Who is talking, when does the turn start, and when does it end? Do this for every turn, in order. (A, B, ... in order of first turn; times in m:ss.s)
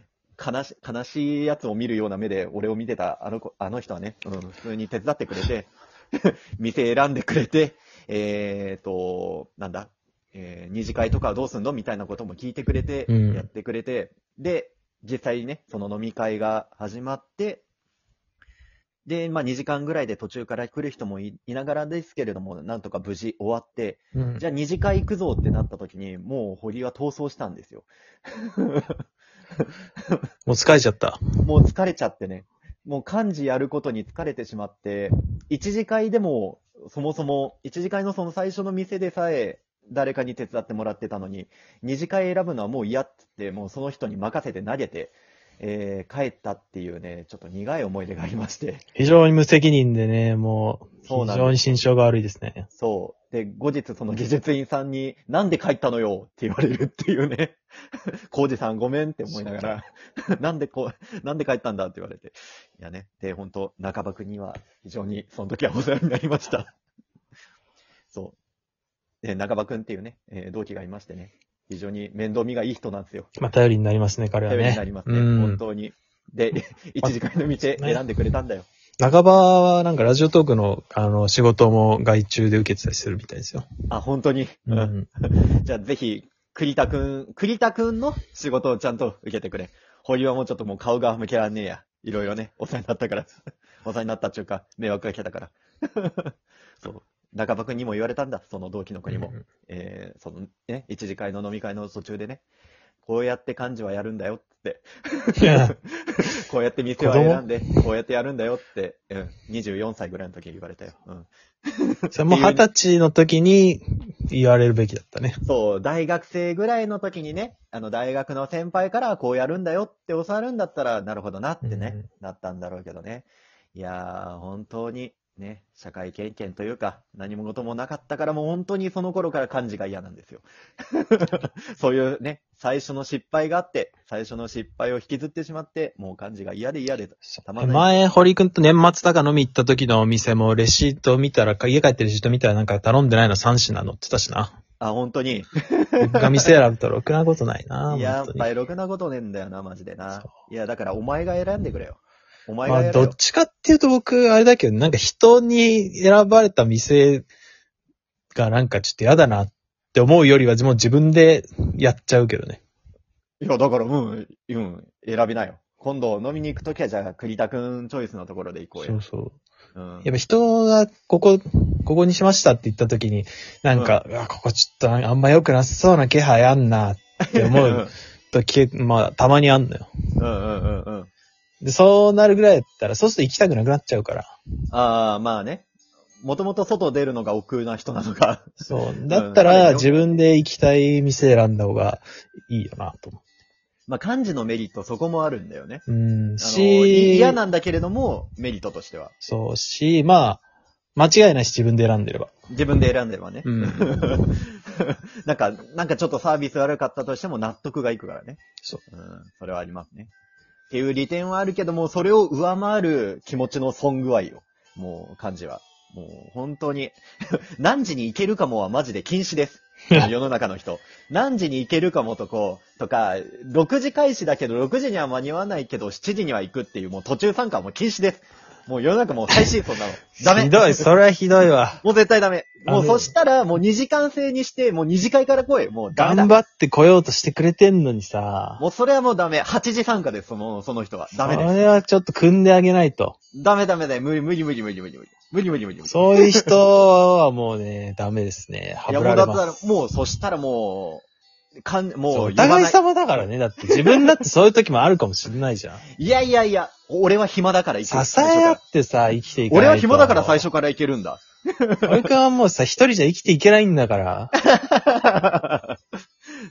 0:00.4-0:17.6 A
0:13.1-0:13.4 B
0:19.0-0:29.0 A
0:24.1-0:24.4 B
0:30.4-0:31.2 B
0:31.4-0:48.8 A
0:48.9-0:52.7 B
0:51.0-0:51.6 A
0:52.8-0:57.6 A
0:58.3-1:06.7 A
0:59.3-0:59.8 B
1:08.1-1:08.4 A
1:09.2-1:13.3 A
1:13.4-1:15.6 B
1:14.5-1:18.7 A
1:17.8-1:18.0 B
1:19.0-1:23.7 B
1:23.9-1:42.4 A
1:24.7-1:25.1 B
1:39.1-1:39.4 B
1:43.0-1:52.6 A
1:45.4-1:45.7 B
1:47.0-1:47.4 B
1:52.1-1:55.4 B
1:55.4-2:17.9 A
2:01.6-2:02.0 B
2:17.6-2:24.5 B
2:24.8-2:26.5 A
2:26.0-2:28.5 B
2:27.9-2:33.1 A
2:32.6-2:37.3 B
2:38.3-2:42.6 B
2:43.4-2:49.0 A
2:48.8-2:49.4 B
2:49.7-2:50.1 A
2:50.0-2:59.9 B
2:57.2-2:57.9 A
3:00.2-3:01.1 A
3:01.6-3:04.3 B
3:04.7-3:05.7 A
3:06.2-3:08.6 A
3:08.6-3:13.2 B
3:09.1-3:10.2 A
3:13.9-3:15.8 A
3:15.9-3:17.4 B
3:16.4-3:19.1 A
3:19.2-3:20.4 B
3:21.0-3:22.3 B
3:22.5-3:30.1 A
3:23.4-3:24.0 B
3:30.7-3:50.9 A
3:50.2-3:51.8 B
3:51.8-3:56.4 A
3:52.6-3:53.1 B
3:55.9-3:58.6 B
3:58.6-4:01.6 A
4:01.2-4:03.2 B
4:03.3-4:06.6 A
4:05.8-4:09.6 B
4:08.9-4:11.0 A
4:11.6-4:12.8 A
4:12.1-4:15.8 B
4:13.6-4:14.2 A
4:16.0-4:18.6 A
4:17.8-4:20.4 B
4:19.5-4:22.1 A
4:21.8-4:24.3 B
4:24.4-4:25.8 A